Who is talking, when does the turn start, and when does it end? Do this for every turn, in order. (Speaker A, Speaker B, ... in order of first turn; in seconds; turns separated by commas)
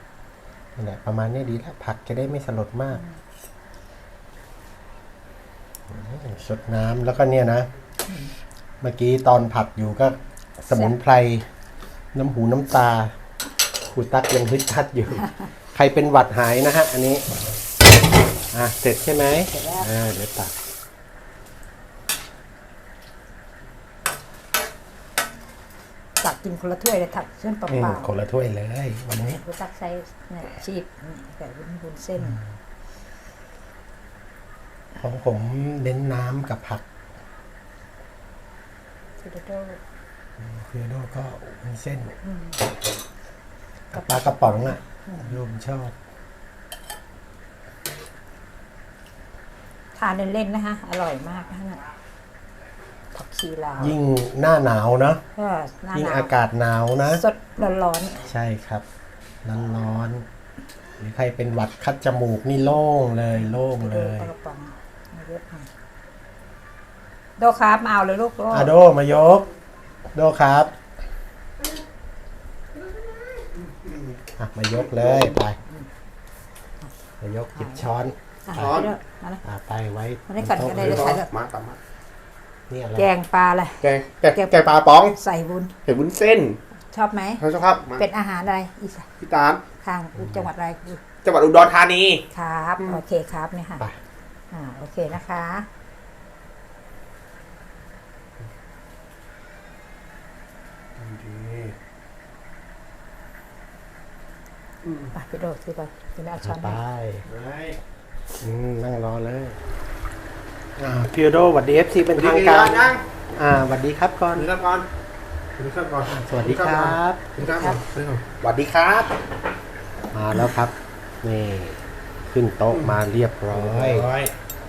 Speaker A: 0.8-3.0, Speaker B: 2.9-3.2, Speaker A: 5.9-7.7, Speaker A: 8.8-11.5, Speaker A: 12.1-13.2, Speaker A: 13.9-17.2, Speaker A: 18.5-20.5, Speaker B: 19.5-19.9, Speaker B: 26.2-28.1, Speaker A: 27.7-29.4, Speaker B: 29.2-32.4, Speaker A: 35.0-36.9, Speaker B: 39.2-39.8, Speaker A: 40.4-42.2, Speaker B: 42.2-42.6, Speaker A: 43.9-46.0, Speaker B: 43.9-45.4, Speaker B: 50.0-51.8, Speaker B: 53.1-54.0, Speaker A: 53.8-55.2, Speaker B: 55.4-56.3, Speaker A: 55.9-57.2, Speaker B: 57.1-58.3, Speaker A: 58.2-58.8, Speaker A: 59.4-60.2, Speaker A: 61.0-64.3, Speaker B: 63.4-65.7, Speaker B: 67.4-68.7, Speaker A: 68.5-69.5, Speaker A: 70.1-70.8, Speaker C: 73.4-74.2, Speaker A: 74.4-75.6, Speaker C: 75.0-75.3, Speaker A: 77.2-78.9, Speaker B: 77.5-77.8, Speaker B: 78.5-79.4, Speaker C: 78.5-79.0, Speaker A: 79.4-81.2, Speaker B: 80.3-81.3, Speaker C: 80.7-81.8, Speaker A: 82.7-83.1, Speaker B: 83.0-85.7, Speaker C: 83.8-85.2, Speaker C: 85.9-86.6, Speaker B: 86.9-87.4, Speaker C: 87.4-88.0, Speaker B: 88.0-89.1, Speaker C: 89.2-89.6, Speaker B: 89.8-91.0, Speaker A: 90.2-90.4, Speaker C: 91.2-92.2, Speaker B: 92.3-93.9, Speaker B: 94.5-95.7, Speaker A: 101.0-101.7, Speaker B: 105.1-106.8, Speaker A: 106.4-107.2, Speaker C: 107.2-107.8, Speaker A: 108.4-109.6, Speaker A: 110.8-114.5, Speaker C: 112.2-113.1, Speaker C: 114.3-114.9, Speaker C: 115.6-119.2, Speaker A: 116.1-117.2, Speaker B: 117.4-117.8, Speaker A: 120.1-124.1, Speaker C: 123.5-124.3